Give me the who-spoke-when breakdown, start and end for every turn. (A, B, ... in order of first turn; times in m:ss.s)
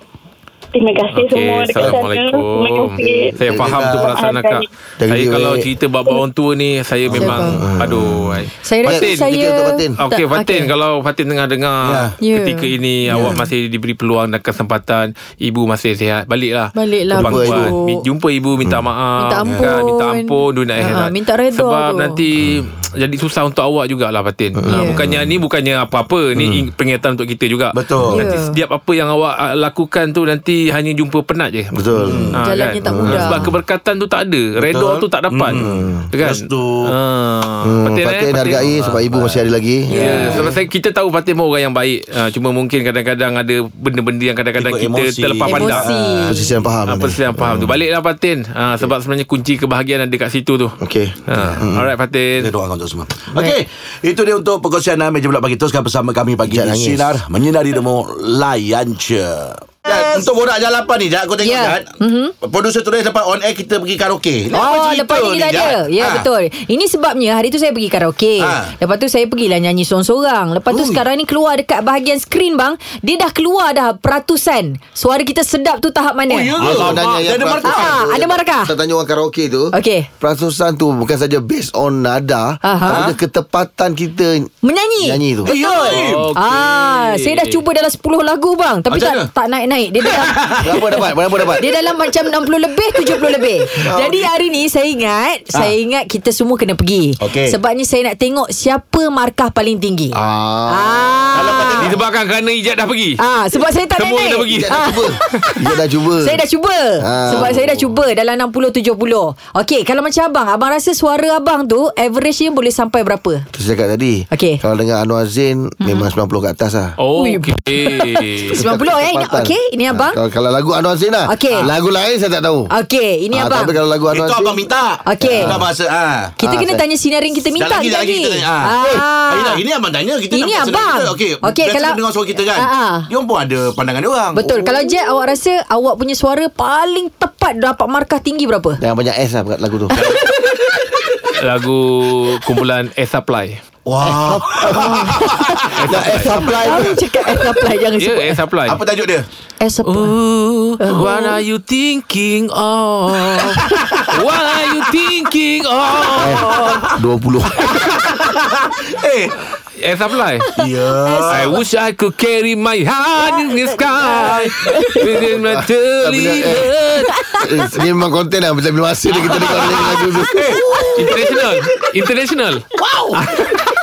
0:00.7-0:04.7 A
0:01.1-0:09.3 B
0:01.8-0:02.0 C
0:03.0-0:03.8 D
0:03.7-0:04.1 C
0:05.0-0:05.7 D
0:07.0-0:10.0 D
0:07.2-0:07.6 E
0:08.6-0:10.7 E
0:10.0-0:35.6 B
0:11.8-0:12.2 C
0:12.2-0:13.4 E
0:13.1-0:13.4 D
0:16.7-0:18.0 E
0:17.1-0:17.7 D
0:19.2-0:22.2 E
0:19.4-0:19.8 C
0:24.6-0:25.4 D
0:24.7-0:25.0 E
0:27.7-0:28.2 C
0:28.1-0:28.6 E
0:31.7-0:33.5 D
0:32.0-0:32.4 C
0:32.4-0:33.5 E
0:34.6-0:36.9 C
0:35.5-0:36.1 D
0:36.1-0:38.8 B
0:37.6-0:40.4 D
0:38.6-0:39.4 C
0:39.9-0:40.4 E
0:39.9-0:45.9 B
0:40.3-0:40.5 C
0:44.6-0:46.4 C
0:45.4-0:46.4 E
0:46.2-0:47.8 D
0:46.9-0:50.7 B
0:50.8-0:51.9 D
0:51.3-0:52.5 B
0:51.4-0:51.7 C
0:52.4-1:06.3 C
0:56.4-0:57.2 D
0:59.9-1:00.2 E
1:01.4-1:02.3 E
1:04.5-1:16.6 E
1:08.4-1:08.7 C
1:10.7-1:11.0 C
1:16.3-1:18.0 C
1:16.6-1:17.3 B
1:16.6-1:25.5 D
1:17.6-1:18.7 E
1:19.7-1:20.1 E
1:22.6-1:23.0 E
1:22.9-1:23.2 C
1:24.6-1:30.3 E
1:25.4-1:26.4 C
1:25.7-1:27.6 B
1:28.9-1:29.3 C
1:30.0-1:30.7 C
1:30.6-1:31.6 D
1:31.6-1:42.0 E
1:33.8-1:34.2 D
1:37.2-1:37.6 C
1:40.1-1:41.6 D
1:41.4-1:41.9 C
1:41.8-1:43.2 B
1:43.2-1:53.4 E
1:43.9-1:44.9 B
1:44.5-1:46.4 D
1:47.0-1:47.7 D
1:53.5-1:56.9 D
1:54.3-1:54.6 E
1:55.8-1:56.1 E
1:57.0-1:58.6 B
1:57.2-2:00.2 E
1:58.5-2:02.7 D
2:01.3-2:01.7 E
2:02.7-2:03.8 E
2:03.3-2:04.7 D
2:04.1-2:06.4 C
2:05.0-2:05.6 E
2:05.2-2:05.6 D
2:06.4-2:09.6 E
2:06.4-2:06.8 D
2:07.5-2:14.4 C
2:10.3-2:13.1 E
2:14.4-2:18.8 E
2:14.4-2:15.0 D
2:18.8-2:20.0 D
2:19.9-2:20.2 E
2:21.4-2:23.6 B
2:23.9-2:25.5 C
2:24.0-2:25.1 D
2:24.7-2:25.6 E
2:25.7-2:26.4 B
2:25.8-2:27.0 D
2:26.3-2:28.4 E
2:28.0-2:28.8 B
2:28.7-2:29.2 C
2:29.6-2:30.1 E
2:29.8-2:36.5 B
2:30.8-2:31.4 E
2:33.5-2:34.1 C
2:36.2-2:37.8 D
2:36.3-2:37.0 C
2:37.8-2:39.4 C
2:39.8-2:40.4 B
2:40.5-2:41.6 C
2:40.6-2:41.6 E
2:41.3-2:47.2 B
2:43.2-2:45.2 E
2:45.3-2:46.7 D
2:47.1-2:47.4 E
2:47.4-2:51.5 D
2:49.2-2:51.1 C
2:51.0-2:52.6 B
2:52.8-2:53.2 D
2:53.2-2:53.6 B